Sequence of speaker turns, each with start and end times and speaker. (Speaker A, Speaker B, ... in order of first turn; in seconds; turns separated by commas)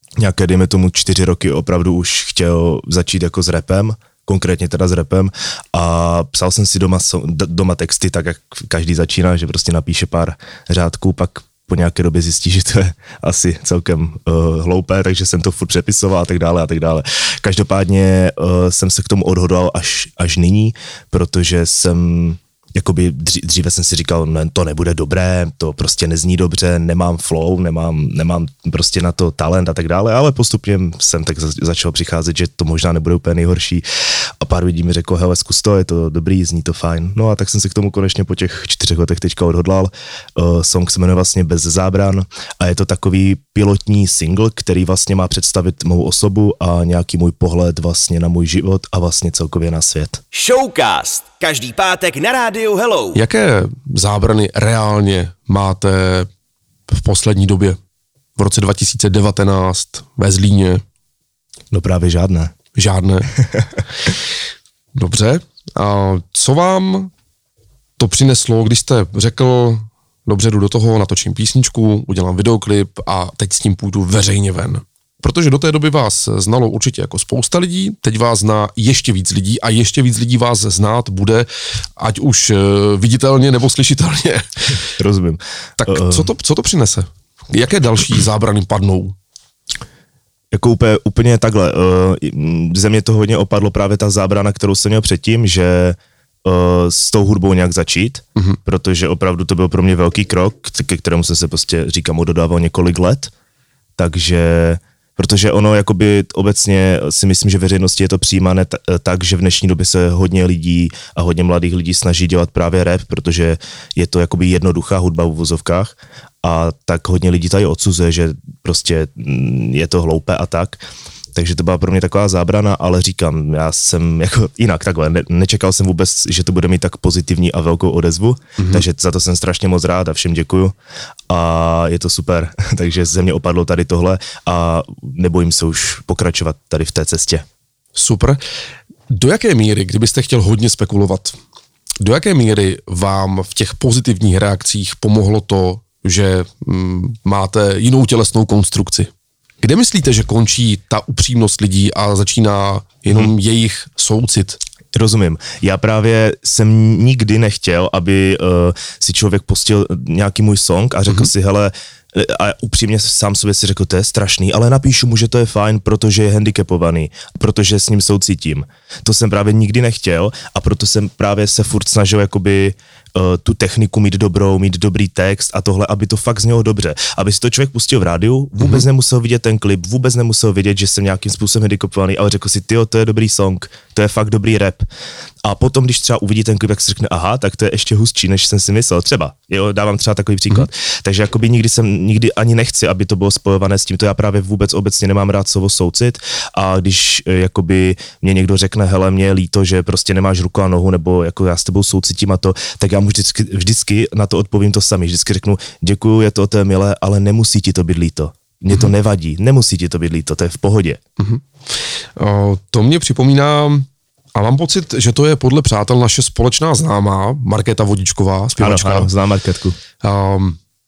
Speaker A: 0.2-33.8, Speaker A: 34.4-50.2, Speaker B: 50.3-53.2, Speaker C: 53.1-56.3, Speaker C: 56.9-57.8, Speaker C: 58.4-60.8, Speaker A: 61.7-62.5, Speaker C: 62.7-63.3, Speaker C: 65.0-67.1, Speaker C: 68.0-84.8, Speaker A: 85.0-86.3, Speaker C: 85.8-89.2, Speaker A: 90.5-103.3, Speaker A: 104.0-120.8, Speaker A: 121.3-130.7, Speaker A: 131.3-137.4, Speaker C: 137.9-138.4, Speaker C: 139.1-141.3, Speaker C: 142.0-149.1, Speaker C: 149.6-154.6, Speaker A: 154.9-184.8, Speaker A: 185.4-211.0, Speaker C: 211.2-211.4, Speaker C: 212.2-219.1, Speaker A: 218.6-219.8, Speaker C: 220.0-220.6